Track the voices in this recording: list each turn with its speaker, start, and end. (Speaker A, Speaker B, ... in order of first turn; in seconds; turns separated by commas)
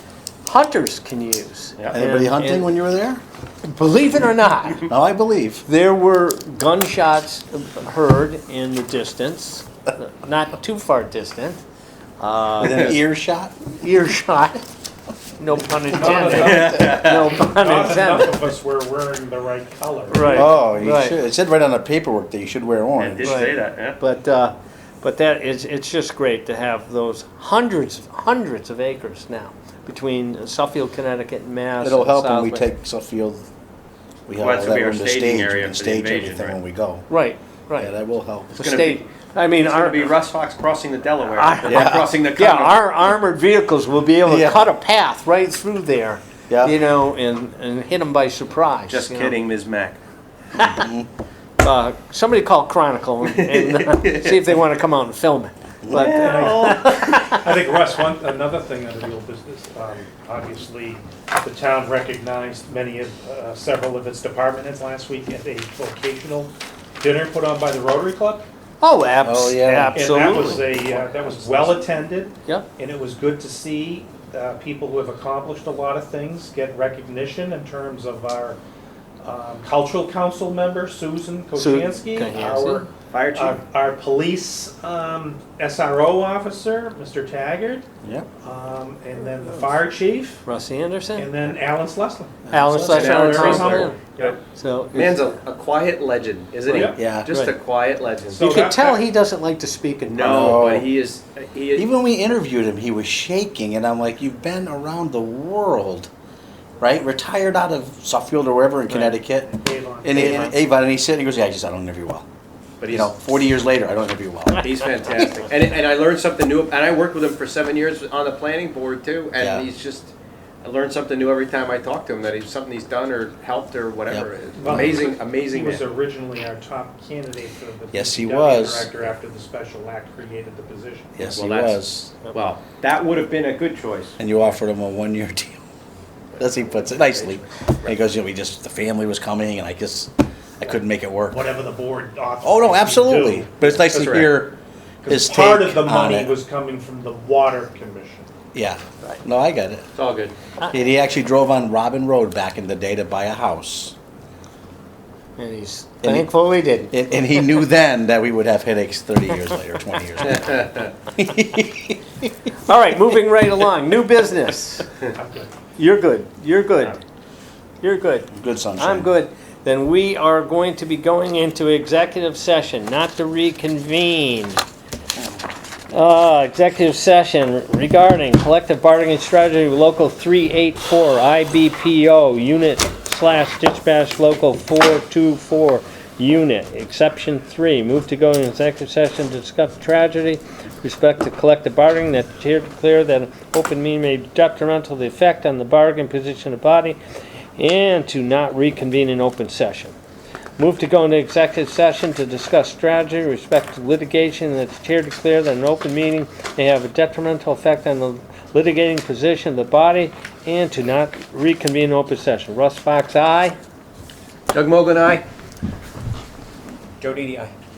Speaker A: 0.5-2.7, Speaker B: 1.9-3.2, Speaker A: 3.6-4.9, Speaker B: 4.9-5.7, Speaker A: 5.7-11.6, Speaker A: 12.2-13.0, Speaker B: 12.6-13.6, Speaker A: 13.8-14.6, Speaker A: 15.4-18.5, Speaker C: 15.9-20.5, Speaker D: 16.2-17.4, Speaker A: 20.1-21.2, Speaker B: 20.3-23.4, Speaker D: 23.0-24.0, Speaker A: 23.2-32.7, Speaker B: 31.8-33.5, Speaker B: 34.3-37.1, Speaker D: 34.4-36.6, Speaker A: 37.1-37.9, Speaker B: 37.8-38.6, Speaker A: 38.5-40.2, Speaker D: 38.6-39.1, Speaker D: 39.6-42.8, Speaker A: 41.4-49.3, Speaker B: 41.6-42.1, Speaker B: 44.2-44.7, Speaker B: 46.5-46.8, Speaker D: 48.9-50.0, Speaker B: 50.6-51.1, Speaker A: 51.6-57.5, Speaker D: 53.2-54.5, Speaker B: 55.8-56.2, Speaker C: 55.9-68.5, Speaker D: 56.2-56.5, Speaker A: 68.8-71.9, Speaker B: 69.2-70.5, Speaker C: 69.9-78.6, Speaker C: 79.2-87.9, Speaker A: 81.6-82.8, Speaker D: 83.1-83.6, Speaker C: 88.4-90.5, Speaker A: 89.4-89.8, Speaker A: 90.5-91.3, Speaker C: 91.2-94.4, Speaker A: 92.5-94.0, Speaker D: 92.8-94.4, Speaker A: 94.5-95.2, Speaker D: 94.9-98.5, Speaker C: 96.7-97.0, Speaker B: 97.0-97.3, Speaker C: 98.3-99.1, Speaker A: 98.4-100.6, Speaker D: 100.1-101.9, Speaker B: 100.2-100.9, Speaker B: 101.8-106.1, Speaker B: 106.8-112.3, Speaker A: 108.9-109.1, Speaker C: 109.6-110.5, Speaker A: 110.1-110.5, Speaker D: 112.8-113.1, Speaker B: 112.9-114.7, Speaker D: 114.6-125.9, Speaker B: 119.4-119.7, Speaker B: 124.1-124.9, Speaker C: 124.5-131.3, Speaker B: 127.9-128.9, Speaker B: 131.2-132.2, Speaker D: 131.3-134.2, Speaker B: 134.2-135.6, Speaker D: 136.3-138.0, Speaker B: 136.4-141.5, Speaker C: 141.3-144.3, Speaker B: 142.4-144.6, Speaker D: 143.8-144.3, Speaker C: 145.0-148.3, Speaker B: 145.1-146.3, Speaker B: 148.5-149.9, Speaker D: 149.9-150.3, Speaker B: 150.7-154.0, Speaker A: 155.4-156.9, Speaker B: 156.0-156.3, Speaker B: 156.8-162.0, Speaker D: 160.3-160.9, Speaker A: 162.7-164.9, Speaker C: 165.1-165.5, Speaker A: 165.8-167.0, Speaker A: 167.8-174.6, Speaker B: 168.3-169.1, Speaker A: 175.9-197.0, Speaker A: 197.6-199.9, Speaker A: 200.6-213.6, Speaker D: 214.5-215.3, Speaker D: 217.0-217.5